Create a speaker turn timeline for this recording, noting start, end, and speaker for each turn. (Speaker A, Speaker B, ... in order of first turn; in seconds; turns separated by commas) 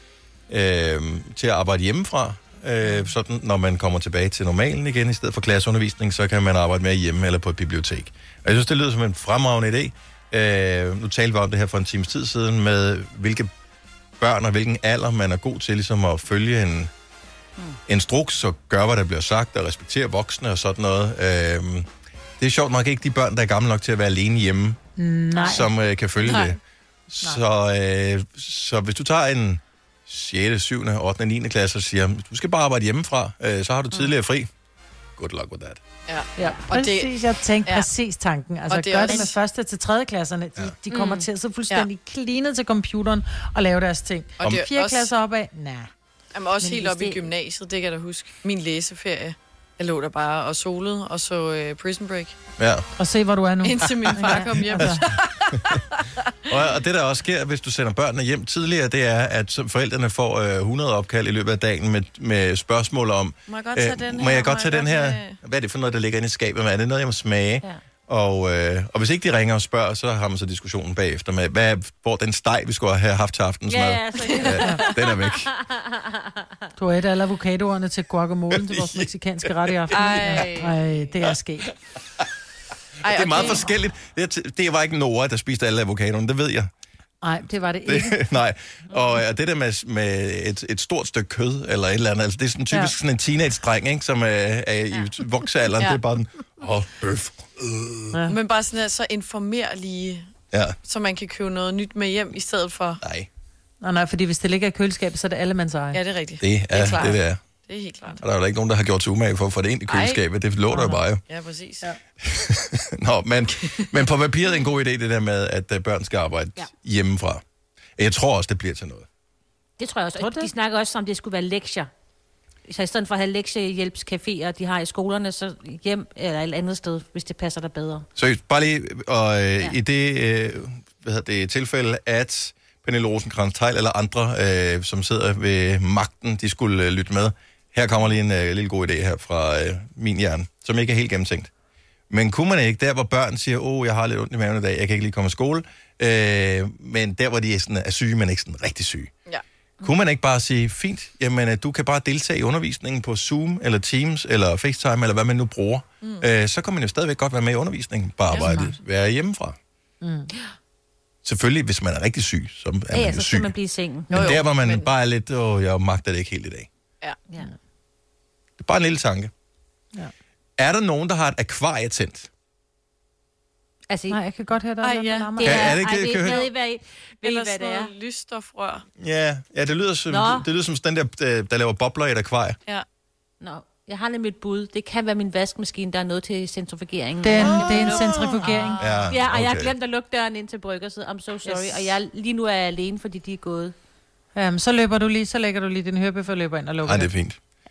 Speaker A: 0.5-13.5, Speaker A: 14.2-16.9, Speaker A: 17.9-21.9, Speaker A: 22.4-24.8, Speaker B: 25.0-25.7, Speaker A: 25.4-26.6, Speaker C: 26.2-26.5, Speaker A: 27.1-34.5, Speaker A: 35.2-35.8, Speaker C: 36.1-37.9, Speaker B: 36.4-45.9, Speaker C: 38.7-39.3, Speaker D: 39.0-39.3, Speaker D: 40.9-41.3, Speaker C: 44.4-45.1, Speaker C: 46.3-52.4, Speaker D: 46.7-47.2, Speaker A: 52.6-52.9, Speaker B: 53.0-55.2, Speaker C: 53.6-56.0, Speaker A: 55.5-55.8, Speaker A: 56.5-75.5, Speaker C: 63.5-65.4, Speaker D: 73.7-76.5, Speaker B: 76.8-81.7, Speaker A: 78.5-79.1, Speaker A: 79.9-80.2, Speaker C: 79.9-80.6, Speaker D: 80.2-80.8, Speaker C: 83.0-83.7, Speaker A: 83.1-86.7, Speaker B: 87.2-88.3, Speaker A: 87.8-98.1, Speaker C: 98.3-100.3, Speaker C: 100.8-103.0, Speaker A: 103.0-103.3, Speaker B: 103.8-106.0, Speaker C: 105.9-108.2, Speaker A: 106.4-107.4, Speaker A: 108.2-111.2, Speaker C: 109.9-110.2, Speaker B: 110.7-111.0, Speaker C: 111.2-111.9, Speaker A: 112.2-117.4, Speaker A: 118.0-119.1, Speaker D: 119.8-121.9, Speaker B: 120.2-120.5, Speaker D: 122.7-128.1, Speaker A: 128.2-141.5, Speaker A: 142.1-149.1, Speaker A: 149.8-159.6, Speaker D: 158.3-158.7, Speaker B: 160.0-160.3, Speaker A: 161.2-163.5, Speaker D: 162.9-164.3, Speaker C: 164.1-164.9, Speaker A: 164.1-166.7, Speaker A: 168.6-169.3, Speaker A: 170.6-172.3, Speaker D: 173.9-174.2, Speaker B: 174.1-175.7, Speaker C: 174.8-175.2, Speaker D: 174.9-177.9, Speaker A: 175.4-176.4, Speaker C: 176.1-176.5, Speaker C: 177.2-178.8, Speaker A: 179.0-182.6, Speaker D: 180.1-180.4, Speaker D: 183.4-193.7, Speaker B: 187.2-188.8, Speaker A: 187.4-189.7, Speaker B: 191.4-191.9, Speaker B: 194.3-197.1, Speaker A: 196.8-197.4